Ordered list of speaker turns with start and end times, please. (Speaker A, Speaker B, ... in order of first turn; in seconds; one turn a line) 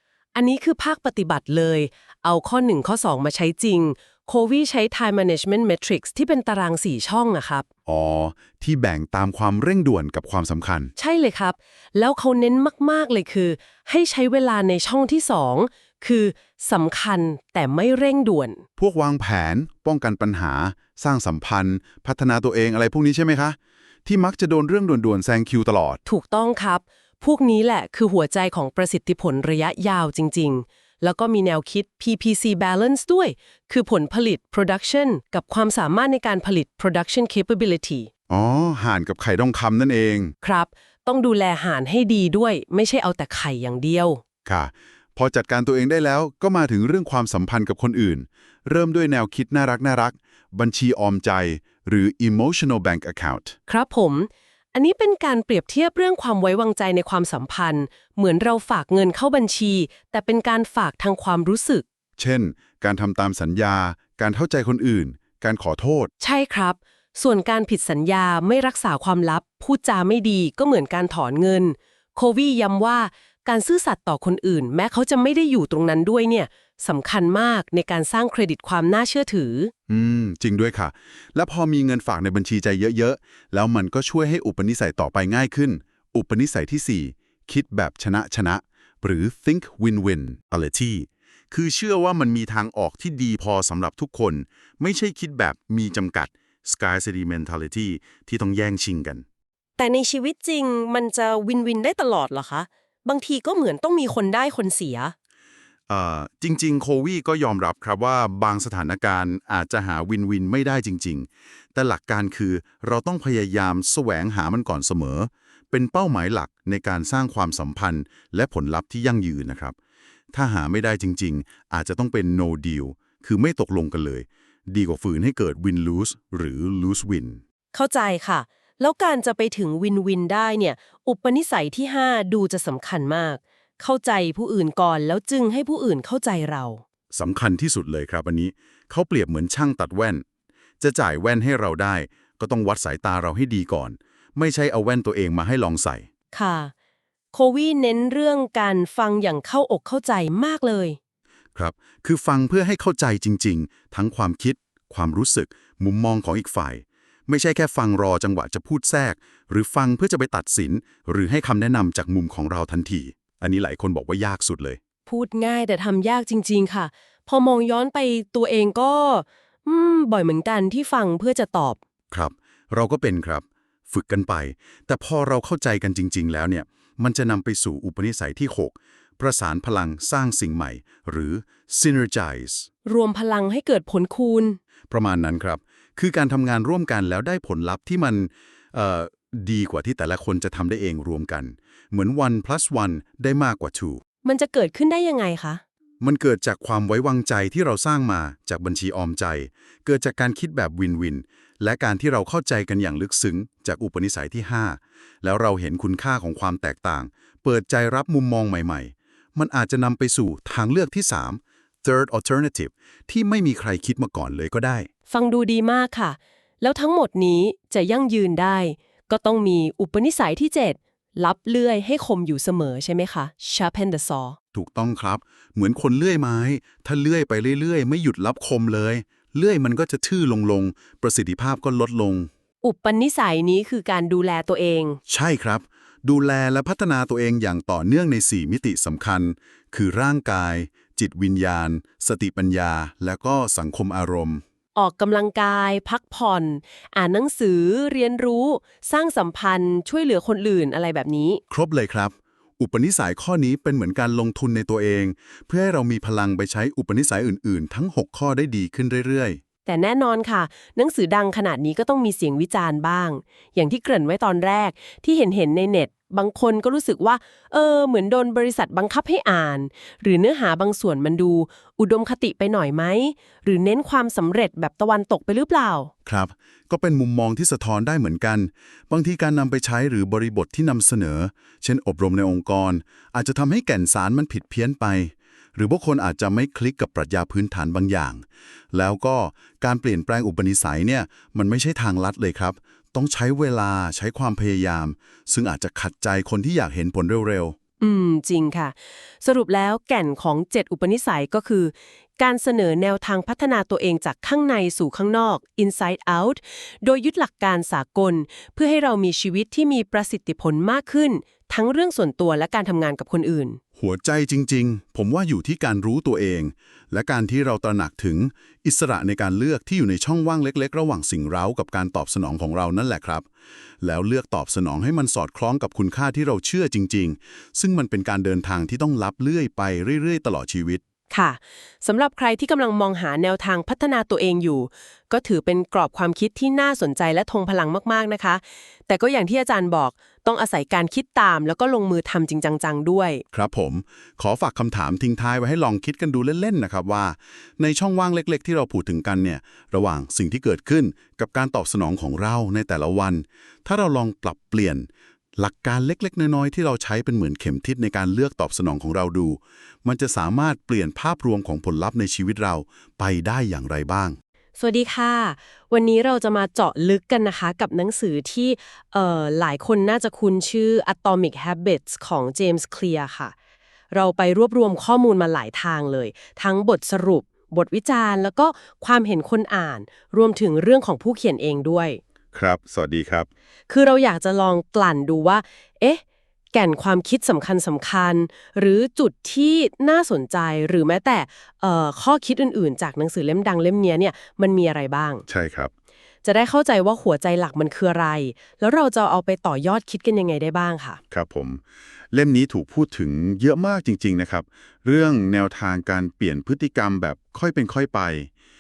Speaker A: 0.3-7.7
Speaker B: 7.8-10.9
Speaker A: 11.0-18.6
Speaker B: 18.8-26.0
Speaker A: 26.1-38.1
Speaker B: 38.3-40.3
Speaker A: 40.4-44.2
Speaker B: 44.4-53.5
Speaker A: 53.7-61.8
Speaker B: 62.2-66.1
Speaker A: 66.2-79.7
Speaker B: 79.9-99.2
Speaker A: 99.8-105.1
Speaker B: 105.9-119.8
Speaker B: 120.3-127.4
Speaker A: 127.7-136.8
Speaker B: 137.1-140.2
Speaker B: 140.8-146.1
Speaker A: 146.3-146.7
Speaker A: 147.3-151.0
Speaker B: 151.5-164.8
Speaker A: 165.1-171.8
Speaker B: 172.1-182.7
Speaker A: 182.8-184.6
Speaker B: 184.9-194.0
Speaker A: 194.2-195.6
Speaker B: 196.0-214.9
Speaker A: 215.1-224.4
Speaker B: 224.5-232.3
Speaker A: 232.6-235.0
Speaker B: 235.1-244.4
Speaker A: 244.7-251.4
Speaker B: 251.5-259.4
Speaker A: 259.6-275.9
Speaker B: 276.0-297.6
Speaker A: 297.8-313.6
Speaker B: 313.8-323.3
Speaker B: 323.8-330.8
Speaker A: 331.1-343.2
Speaker B: 343.3-364.2
Speaker A: 364.6-373.3
Speaker A: 373.9-382.0
Speaker B: 382.3-383.3
Speaker A: 383.7-386.0
Speaker A: 386.5-395.2
Speaker B: 395.3-395.7
Speaker A: 396.2-401.0
Speaker B: 401.1-408.3